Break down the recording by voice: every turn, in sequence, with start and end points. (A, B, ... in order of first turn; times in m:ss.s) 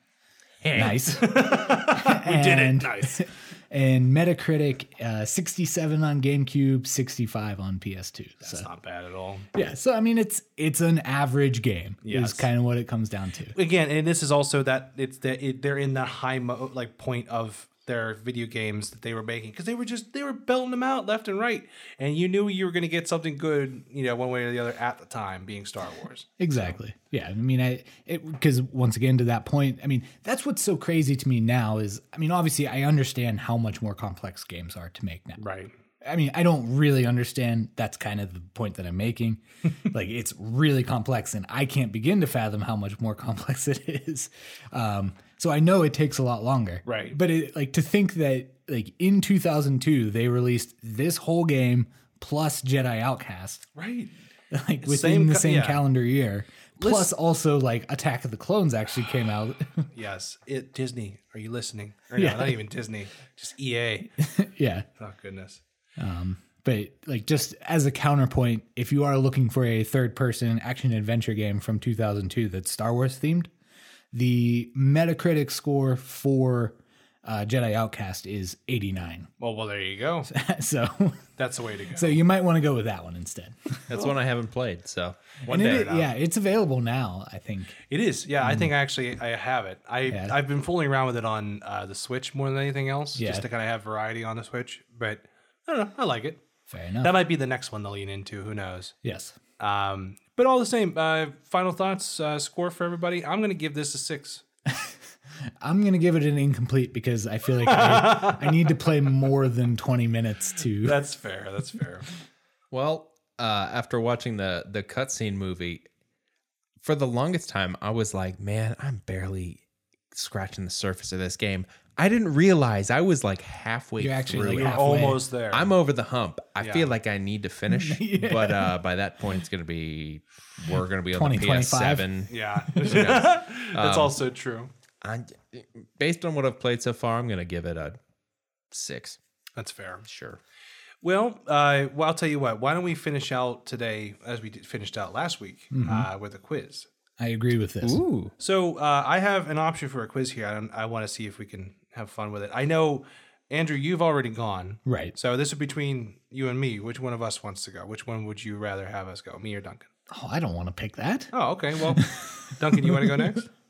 0:00.6-0:01.0 A
0:00.7-0:08.7 B
0:00.8-0:03.3 C
0:08.4-0:09.5 C
0:09.5-0:13.5 B
0:12.0-0:12.5 C
0:13.5-0:26.8 C
0:26.4-0:35.4 B
0:35.4-0:35.7 C
0:36.0-0:53.7 B
0:46.8-0:47.2 C
0:53.7-0:54.1 C
0:54.5-0:59.8 B
0:54.8-0:55.8 C
0:56.8-0:57.1 C
0:59.9-1:04.1 C
1:02.2-1:02.6 B
1:04.2-1:04.9 B
1:05.0-1:05.6 C
1:06.0-1:13.5 B
1:14.1-1:19.3 B
1:19.4-1:20.3 C
1:20.3-1:21.2 B
1:21.4-1:22.2 C
1:21.9-1:23.8 B
1:23.9-1:26.0 A
1:25.5-1:27.8 B
1:25.5-1:26.0 C
1:27.9-1:36.4 C
1:28.4-1:28.7 B
1:30.1-1:30.4 B
1:33.2-1:33.4 B
1:36.7-1:37.1 B
1:37.0-1:38.9 C
1:39.0-1:39.4 B
1:39.6-1:44.4 C
1:44.7-1:44.9 B
1:45.6-1:51.0 B
1:47.6-1:48.6 C
1:50.8-1:52.1 C
1:52.7-1:55.8 A
1:56.8-1:59.6 A
2:00.1-2:04.9 A
2:04.0-2:05.2 B
2:04.5-2:05.7 C
2:05.5-2:14.2 A
2:06.6-2:06.9 C
2:07.7-2:08.8 B
2:11.1-2:12.1 B
2:12.3-2:14.7 C
2:15.0-2:18.0 A
2:18.7-2:19.2 A
2:19.6-2:20.0 C
2:20.0-2:20.4 A
2:21.0-2:26.9 C
2:25.7-2:26.1 B
2:27.2-2:28.0 B
2:27.8-2:28.3 A
2:28.4-2:39.9 C
2:34.8-2:35.1 B
2:40.1-2:43.3 B
2:41.3-2:43.5 C